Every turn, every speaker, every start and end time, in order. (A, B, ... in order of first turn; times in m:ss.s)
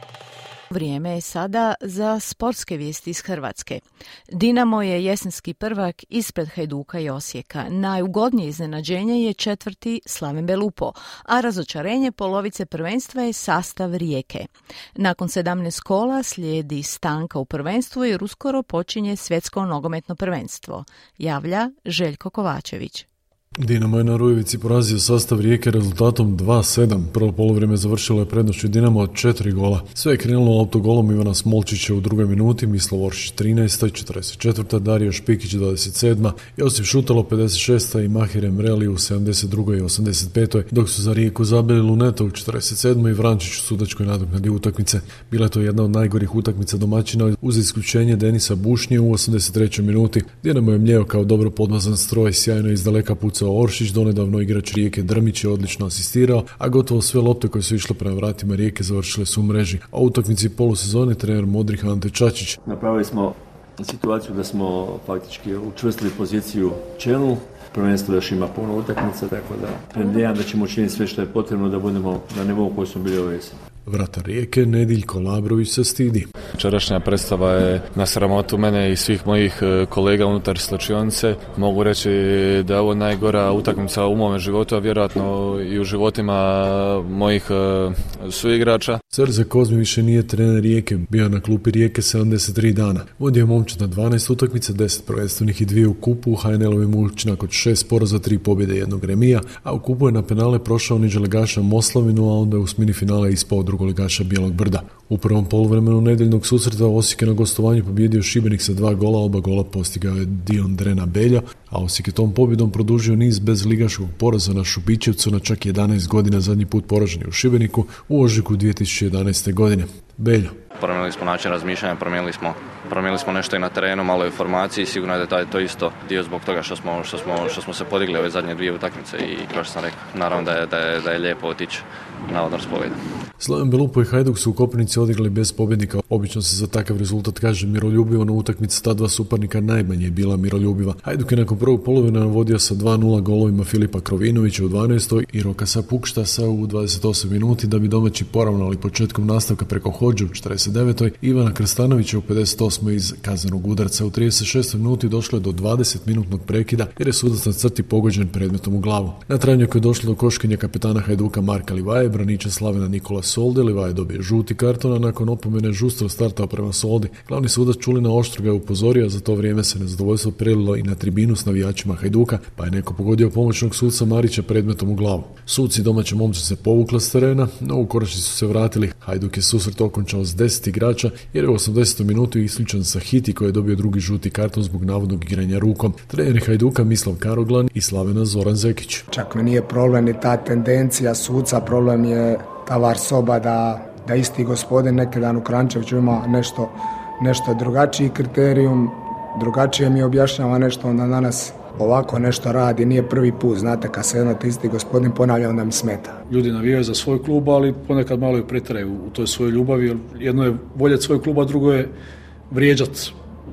0:00.7-0:23.1 A
0:23.6-1:02.6 B
1:02.7-1:13.6 C
1:13.9-1:16.3 B
1:16.6-1:29.0 D
1:29.1-2:00.6 B
2:00.8-2:13.0 E
2:13.4-3:09.1 B
3:09.1-3:26.2 F
3:26.3-3:31.9 G
3:32.5-3:33.1 G